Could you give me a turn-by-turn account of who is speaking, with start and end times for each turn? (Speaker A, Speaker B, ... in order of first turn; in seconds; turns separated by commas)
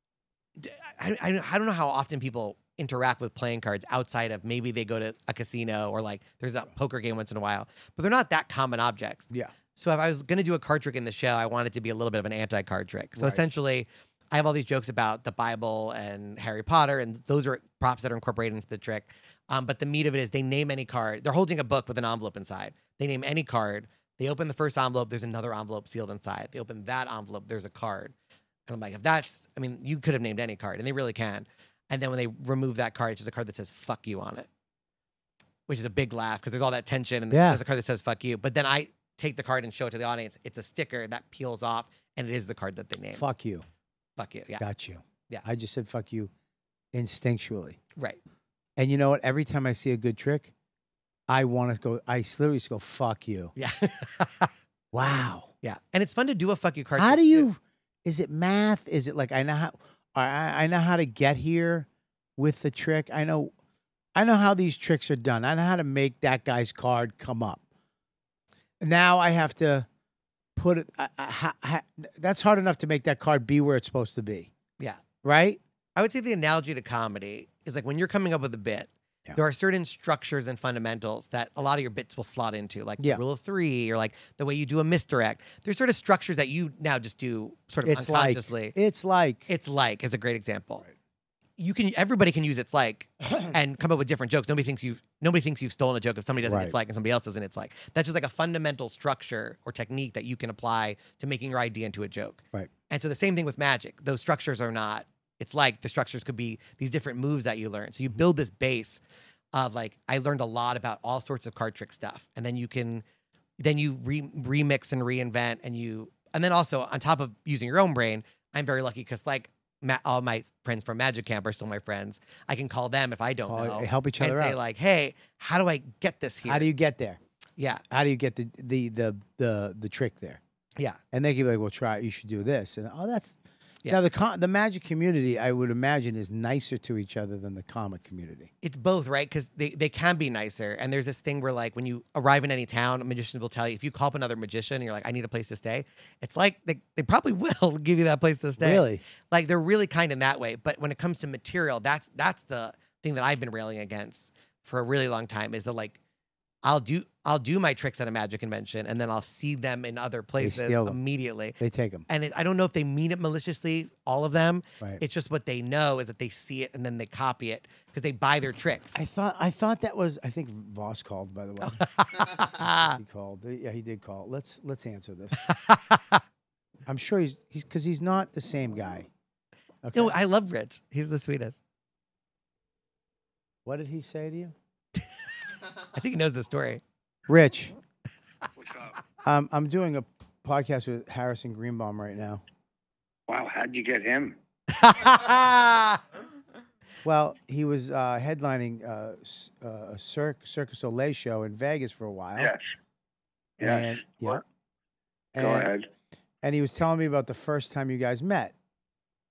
Speaker A: 0.6-28.1, Speaker B: 13.2-13.4, Speaker A: 28.7-34.5, Speaker A: 35.7-43.3, Speaker B: 37.3-37.6, Speaker B: 43.1-43.6, Speaker A: 44.2-44.6, Speaker B: 44.6-46.3, Speaker B: 46.9-47.8, Speaker B: 48.8-50.5, Speaker B: 51.3-53.5, Speaker A: 53.6-54.5, Speaker B: 54.9-55.5, Speaker A: 55.6-57.5, Speaker B: 57.0-63.5, Speaker B: 64.1-67.6, Speaker B: 68.8-69.9, Speaker B: 70.5-74.5, Speaker B: 75.2-75.6, Speaker A: 76.0-88.7, Speaker B: 87.8-89.5, Speaker A: 89.5-90.8, Speaker A: 91.6-109.0, Speaker B: 96.4-96.7, Speaker A: 109.5-113.0, Speaker A: 113.6-126.7, Speaker B: 123.5-124.6, Speaker B: 126.5-127.2, Speaker A: 127.6-127.8, Speaker B: 127.9-130.4, Speaker B: 131.1-138.5, Speaker A: 138.6-156.0, Speaker B: 148.6-149.0, Speaker A: 156.6-161.6, Speaker B: 160.4-161.0, Speaker B: 161.6-162.1, Speaker A: 162.1-169.0, Speaker B: 168.9-171.8, Speaker A: 171.6-173.0, Speaker B: 172.8-175.4, Speaker A: 175.4-176.2, Speaker B: 176.9-179.1, Speaker B: 179.8-180.1, Speaker A: 179.9-181.6, Speaker B: 183.6-184.6, Speaker A: 185.9-186.8, Speaker B: 187.3-187.7, Speaker C: 188.6-188.9, Speaker B: 189.2-192.4, Speaker C: 193.3-194.4, Speaker A: 194.7-196.0, Speaker B: 197.0-202.5, Speaker C: 202.4-202.7, Speaker B: 203.6-204.4, Speaker C: 203.6-204.4, Speaker B: 205.3-205.7, Speaker C: 205.4-205.9, Speaker B: 206.4-208.5